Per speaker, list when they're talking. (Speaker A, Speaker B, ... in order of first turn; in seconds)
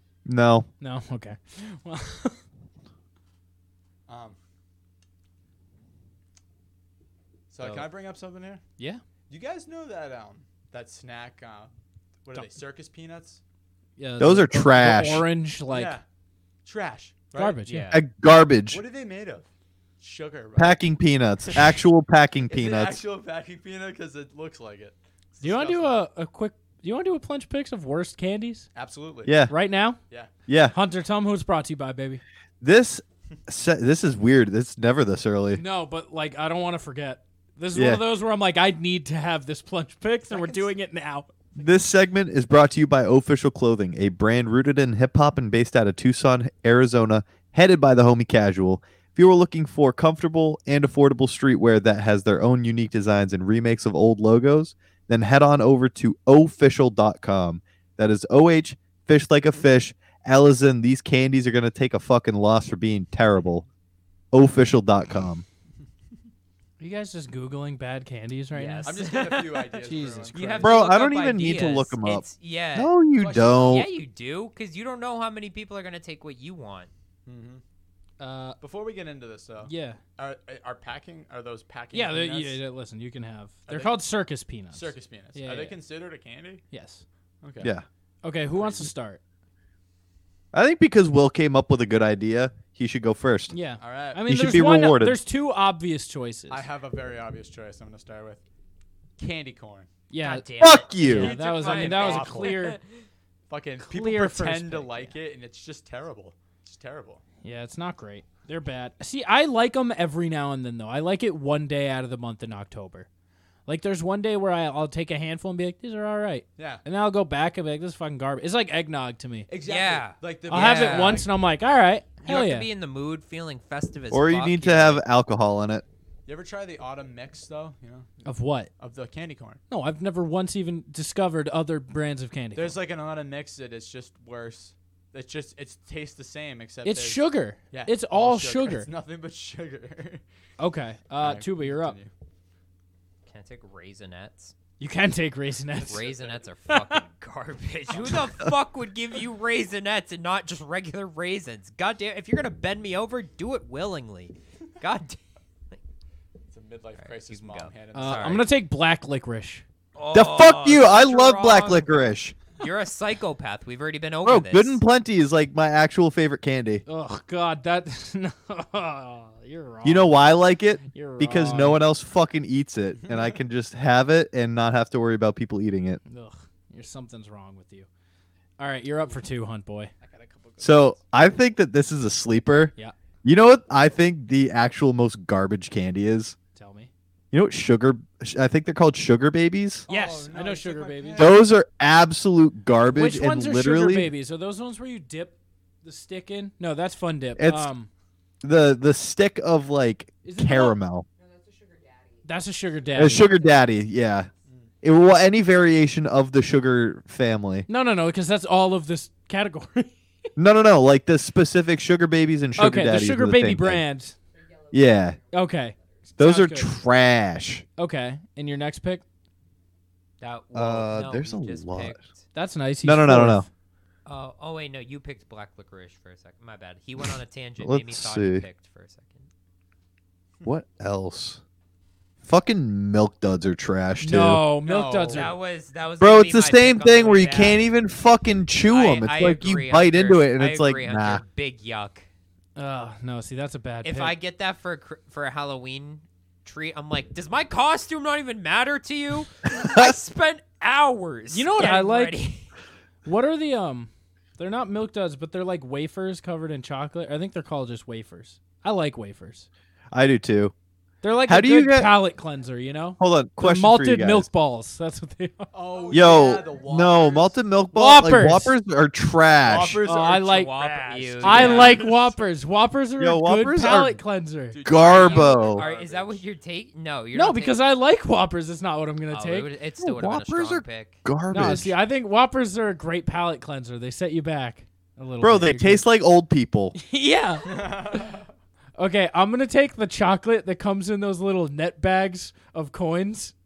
Speaker A: 0.3-0.7, 14.2-15.2, 17.9-18.8, 20.6-23.0, 29.2-29.5, 30.5-30.8, 32.6-35.6, 37.7-38.0, 41.6-63.6, 64.3-65.5, 70.6-73.9, 90.5-93.5, 94.2-95.2, 100.6-101.3, 124.1-125.8, 160.1-162.4, 164.2-166.8, 169.8-176.0, 180.6-186.4, 187.3-189.9, 191.2-194.1, 197.4-197.7, 198.4-201.1, 202.9-204.3, 204.8-207.7, 210.4-213.8, 214.7-215.2, 216.2-217.7, 220.5-222.0, 222.8-223.5, 227.6-228.4, 230.4-231.4, 232.2-234.4, 236.0-241.2, 249.5-249.9, 259.9-260.5, 261.3-262.0, 263.0-264.3, 265.9-269.8, 273.0-274.0, 274.6-275.7, 279.8-281.8, 285.2-286.8
Speaker B: 0.8-2.4, 14.0-16.0, 17.4-17.9, 25.4-28.7, 29.5-30.0, 30.7-32.2, 35.5-41.3, 66.8-69.0, 69.8-70.7, 78.2-78.6, 79.7-80.0, 81.9-85.8, 86.7-87.0, 88.2-89.2, 93.5-96.7, 100.1-102.8, 103.8-105.1, 107.4-113.1, 113.7-119.5, 120.5-122.7, 128.2-128.7, 129.7-132.8, 136.8-138.9, 140.6-142.0, 144.8-146.1, 146.7-147.0, 157.9-159.6, 166.9-170.3, 170.9-171.8, 176.1-177.9, 178.6-179.9, 186.6-186.9, 189.9-191.4, 192.9-197.9, 200.2-200.8, 202.2-203.3, 207.7-209.9, 212.6-214.2, 215.3-216.7, 217.8-219.0, 222.3-223.5, 234.0-235.3, 242.6-244.2, 251.3-252.2, 253.1-259.5, 261.0-265.5, 267.7-268.6, 269.9-270.5, 271.2-274.6, 277.1-279.5, 281.3-285.9, 286.8-288.0, 288.8-293.3
Speaker C: 4.1-4.4, 7.5-8.6, 9.3-11.7, 12.2-13.4, 15.7-16.0, 16.6-17.6, 18.7-19.5, 20.0-20.9, 22.5-26.0, 28.8-29.4, 40.3-40.7, 68.8-70.5, 73.2-73.9, 77.3-77.6, 78.6-82.6, 83.7-84.0, 84.7-86.6, 87.4-87.7, 88.5-88.9, 93.8-94.2, 96.5-98.4, 99.2-99.9, 101.3-102.6, 103.5-107.2, 116.6-116.8, 119.5-121.3, 126.3-128.1, 128.8-129.6, 132.6-140.2, 141.2-142.1, 145.9-146.4, 147.9-148.2, 156.5-158.5, 173.0-173.4, 180.0-181.0, 189.9-191.4, 234.6-235.3, 265.5-267.4, 269.4-272.2, 274.5-276.2, 287.5-288.2
Speaker D: 17.7-18.0, 68.5-69.8, 70.3-72.9, 73.7-76.9, 100.2-103.0, 119.6-121.2, 122.2-125.0, 143.3-144.5, 145.8-155.2, 157.0-158.5, 159.9-164.8, 220.2-222.2, 224.1-229.3, 235.1-237.7, 238.7-242.1, 243.8-252.5, 270.3-271.9, 274.8-277.6, 279.1-281.0
Speaker E: 201.2-204.2, 214.3-216.2, 265.8-266.7